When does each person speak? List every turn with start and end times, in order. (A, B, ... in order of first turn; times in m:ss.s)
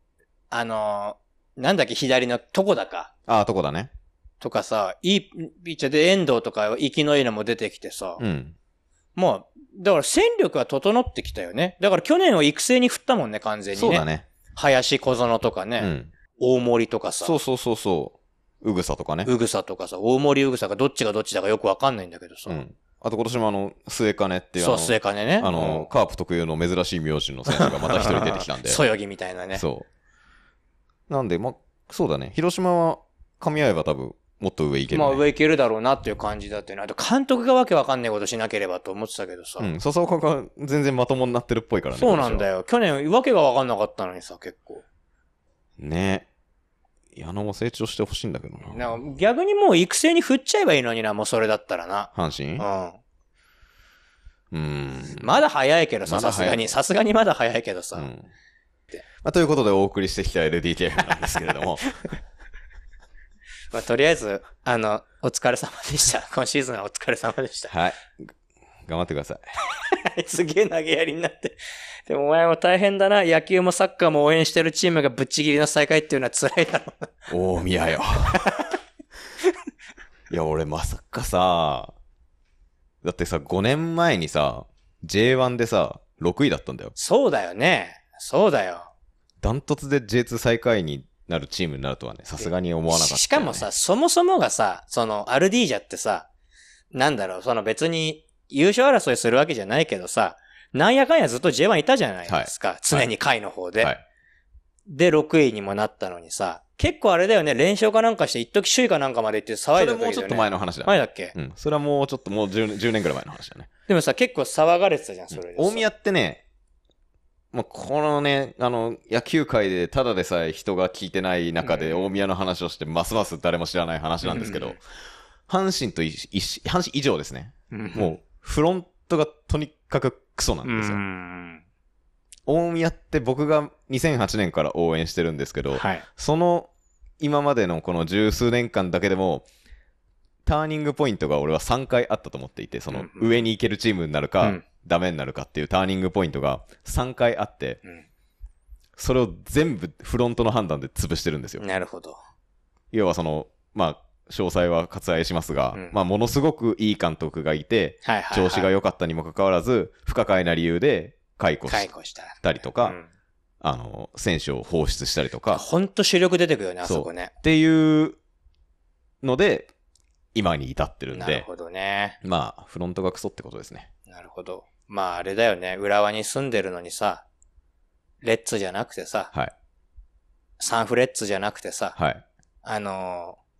0:00.5-0:03.1 A
0:03.3-0:03.9 B
0:04.4-0:08.2 A
0:08.2-0:08.5 B
0:09.2-0:17.3 A
0:13.7-0:14.3 B
0:15.8-0:16.1 B
0:17.2-0:19.3 B
0:19.2-0:22.6 A
0:22.5-0:28.8 B
0:24.6-0:25.9 A
0:27.5-0:29.6 A
0:29.5-0:29.9 B
0:31.1-0:35.2 B
0:34.9-0:39.7 A
0:39.6-0:42.4 B
0:41.9-0:44.8 A
0:45.8-0:46.3 B
0:47.1-0:49.0 B
0:48.6-0:53.0 A
0:52.1-0:52.6 B
0:54.5-0:55.3 B
0:55.2-0:58.1 A
0:56.0-0:56.6 B
0:57.9-0:58.3 B
0:59.2-1:02.0 B
1:03.7-1:07.7 A
1:07.7-1:08.3 B
1:08.9-1:09.5 B
1:09.7-1:17.1 A
1:17.3-1:18.5 B
1:18.3-1:18.7 A
1:20.3-1:21.9 B
1:23.0-1:26.9 B
1:27.0-1:28.9 A
1:29.4-1:33.6 B
1:32.4-1:36.3 A
1:36.9-1:43.9 A
1:42.3-1:43.1 B
1:44.9-1:51.3 A
1:49.8-1:53.7 B
1:53.9-1:55.9 A
1:55.3-1:56.4 B
1:57.5-2:04.8 B
2:01.6-2:02.1 A
2:04.2-2:04.8 A
2:05.5-2:11.0 B
2:07.7-2:08.2 A
2:10.6-2:11.6 A
2:12.5-2:19.5 B
2:15.7-2:16.0 A
2:20.4-2:27.8 B
2:22.9-2:23.3 A
2:29.0-2:31.6 B
2:31.6-2:32.2 A
2:32.9-2:41.9 B
2:38.0-2:38.7 A
2:41.7-2:43.1 A
2:42.4-2:43.0 B
2:43.6-2:45.6 B
2:45.5-2:47.3 A
2:46.8-2:48.2 B
2:49.2-2:49.7 B
2:50.3-2:51.5 B
2:51.1-2:52.2 A
2:52.2-2:53.9 B
2:54.1-2:57.2 A
2:58.2-2:59.3 A
3:00.6-3:02.0 A
3:02.0-3:02.2 B
3:02.6-3:03.4 A